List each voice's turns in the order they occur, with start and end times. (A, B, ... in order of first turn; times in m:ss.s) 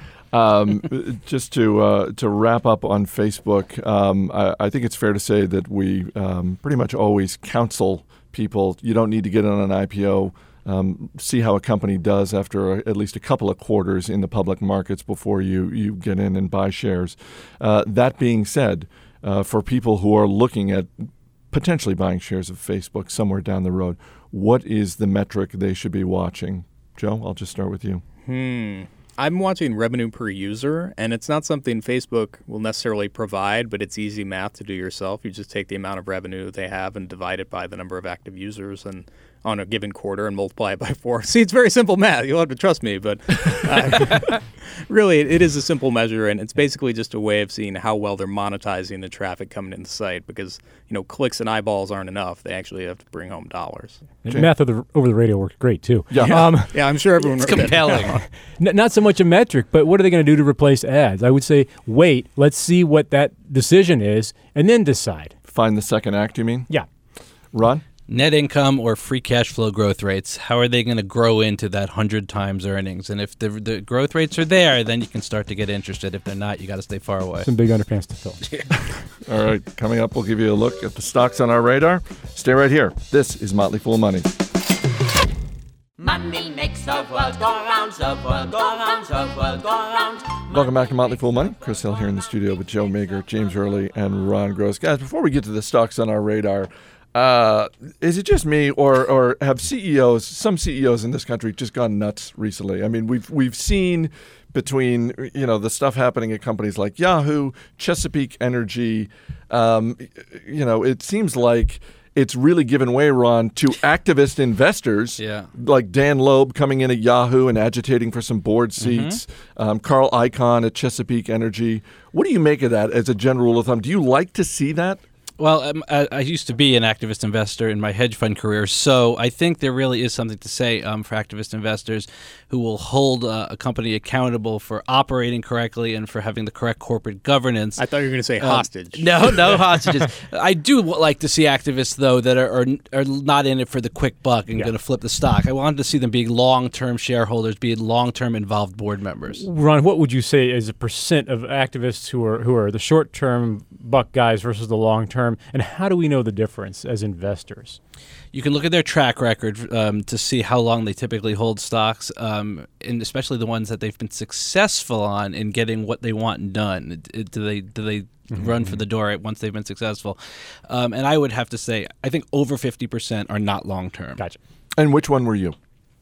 0:00.3-0:28.0 A
0:28.2-0:54.0 B
0:54.2-0:56.8 C
0:56.1-0:56.6 A
0:56.1-0:58.3 B
0:57.4-0:58.2 D
0:58.6-1:05.3 C
1:05.5-1:06.7 A
1:07.5-1:07.8 A
1:08.1-1:17.5 D
1:17.4-1:18.4 C
1:19.3-1:24.3 A
1:26.0-1:30.8 E
1:30.5-2:05.0 A
1:55.2-1:55.5 D
1:58.8-1:59.2 D
2:05.4-2:17.8 D
2:17.8-2:19.6 B
2:18.4-2:29.4 D
2:29.4-2:37.8 C
2:38.3-2:54.2 D
2:54.8-2:55.6 A